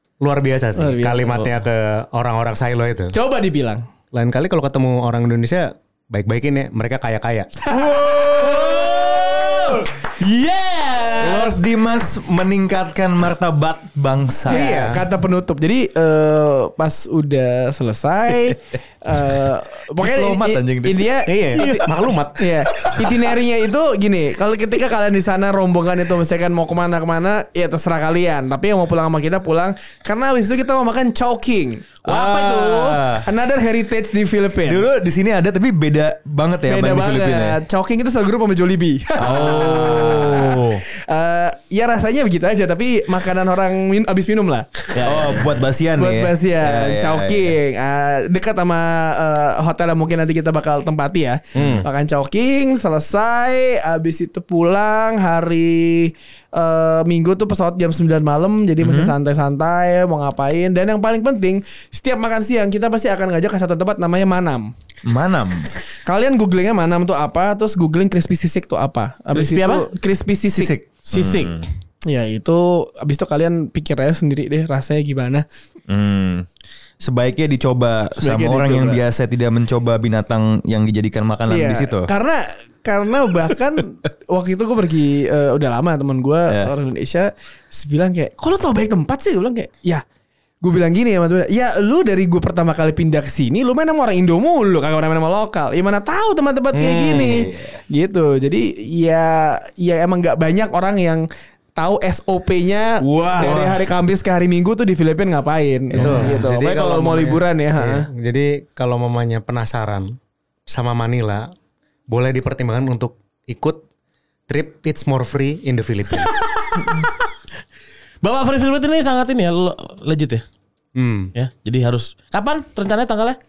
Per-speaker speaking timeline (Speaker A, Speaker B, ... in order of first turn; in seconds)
Speaker A: 0.2-3.1, 4.1-7.5, 14.5-15.1, 21.2-22.5, 105.9-110.2, 110.7-111.5, 112.1-113.8, 114.5-116.4, 120.9-121.3
Speaker B: 0.8-1.5, 3.1-3.9, 7.6-9.7, 14.5-34.9, 36.6-45.4, 45.9-64.7, 66.0-70.7, 72.0-75.4, 78.2-79.0, 81.5-90.0, 90.6-108.1
Speaker C: 7.8-9.8, 11.2-15.0, 19.2-19.4, 20.0-21.1, 22.8-23.2, 32.0-33.3, 34.6-37.6, 39.2-40.6, 45.0-47.5, 51.6-51.8, 58.8-59.1, 65.0-65.7, 70.5-71.6, 75.9-76.5, 77.0-82.1, 96.7-97.8, 103.1-103.8, 105.9-106.4
Speaker D: 9.4-11.6, 39.2-40.8, 44.9-45.4, 51.5-51.9, 69.3-69.9, 70.9-71.6, 78.4-78.8, 103.1-103.5, 116.2-117.2, 118.2-120.4, 121.3-123.4